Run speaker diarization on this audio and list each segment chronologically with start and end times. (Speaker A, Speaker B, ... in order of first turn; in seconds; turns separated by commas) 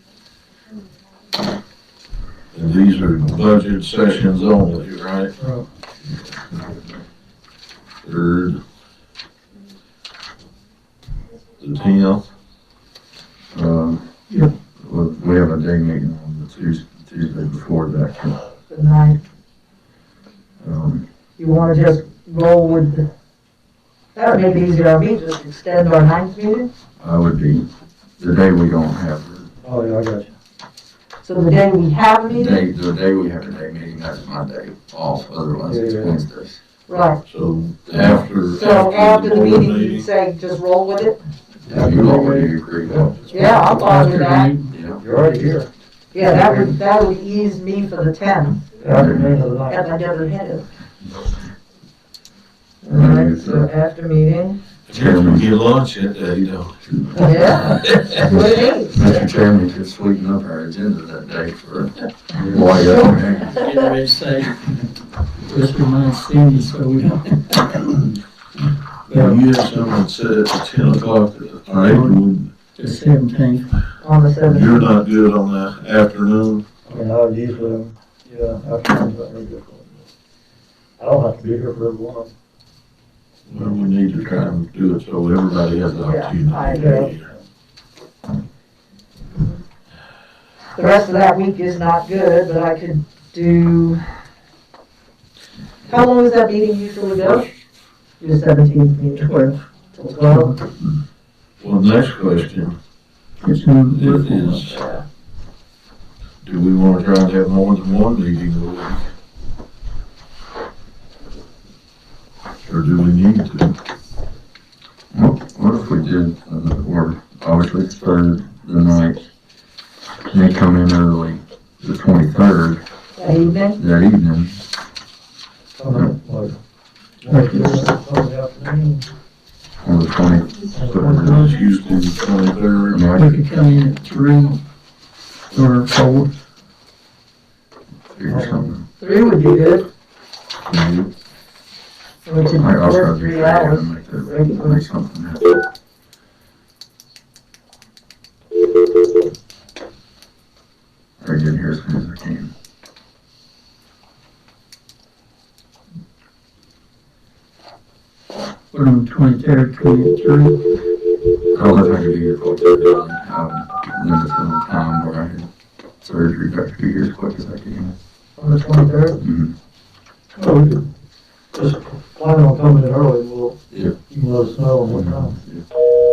Speaker A: 2.5-5.3, Speaker B: 5.4-5.6, Speaker A: 8.0-8.6, Speaker A: 11.6-12.3, Speaker C: 13.5-14.1, Speaker C: 14.7-18.4, Speaker D: 18.7-19.2, Speaker C: 20.6-21.0, Speaker D: 21.4-23.1, Speaker D: 24.1-26.7, Speaker C: 27.0-27.6, Speaker C: 28.2-29.5, Speaker B: 29.6-30.3, Speaker D: 31.2-32.6, Speaker C: 32.3-36.6, Speaker B: 35.6-36.1, Speaker D: 36.9-37.2, Speaker A: 37.3-40.1, Speaker C: 37.9-38.2, Speaker D: 38.4-41.2, Speaker B: 41.7-43.9, Speaker C: 41.7-43.1, Speaker D: 43.3-44.5, Speaker E: 43.4-44.7, Speaker C: 44.7-45.0, Speaker B: 45.0-46.8, Speaker D: 46.1-48.6, Speaker B: 48.8-49.8, Speaker C: 48.9-49.3, Speaker D: 49.7-50.7, Speaker D: 52.8-54.6, Speaker C: 52.9-53.7, Speaker A: 54.9-56.8, Speaker C: 54.9-55.5, Speaker C: 56.8-63.6, Speaker D: 57.2-59.0, Speaker D: 62.9-63.2, Speaker E: 63.3-64.7, Speaker E: 65.4-68.2, Speaker A: 69.0-72.5, Speaker E: 69.1-69.4, Speaker E: 71.8-72.2, Speaker E: 72.7-73.7, Speaker D: 74.0-74.9, Speaker A: 74.5-76.6, Speaker B: 76.9-79.9, Speaker B: 81.0-82.3, Speaker A: 83.5-87.3, Speaker D: 86.0-87.1, Speaker B: 86.7-87.1, Speaker D: 90.8-94.0, Speaker D: 95.9-97.5, Speaker D: 98.2-100.6, Speaker E: 99.2-99.6, Speaker E: 100.2-100.5, Speaker A: 101.6-102.8, Speaker E: 103.4-104.6, Speaker A: 103.9-104.8, Speaker D: 104.7-105.0, Speaker A: 106.4-109.1, Speaker A: 112.6-113.8, Speaker C: 115.1-119.2, Speaker C: 120.2-122.8, Speaker D: 123.2-123.8, Speaker C: 123.8-124.6, Speaker B: 125.8-126.6, Speaker B: 127.2-129.1, Speaker E: 127.3-127.8, Speaker C: 129.8-131.5, Speaker B: 130.7-131.6, Speaker A: 131.3-133.0, Speaker C: 132.9-133.3, Speaker E: 133.2-134.6, Speaker E: 135.5-136.3, Speaker C: 138.1-138.8, Speaker B: 138.3-138.7, Speaker D: 139.0-139.9, Speaker A: 140.7-141.1, Speaker D: 142.2-144.8, Speaker C: 142.5-145.6, Speaker C: 151.2-152.5, Speaker E: 158.7-160.6, Speaker C: 161.5-165.5, Speaker C: 166.0-167.9, Speaker D: 168.4-169.2, Speaker C: 169.2-169.5, Speaker B: 170.4-170.8, Speaker B: 171.5-175.3, Speaker C: 173.7-173.9, Speaker C: 174.9-175.6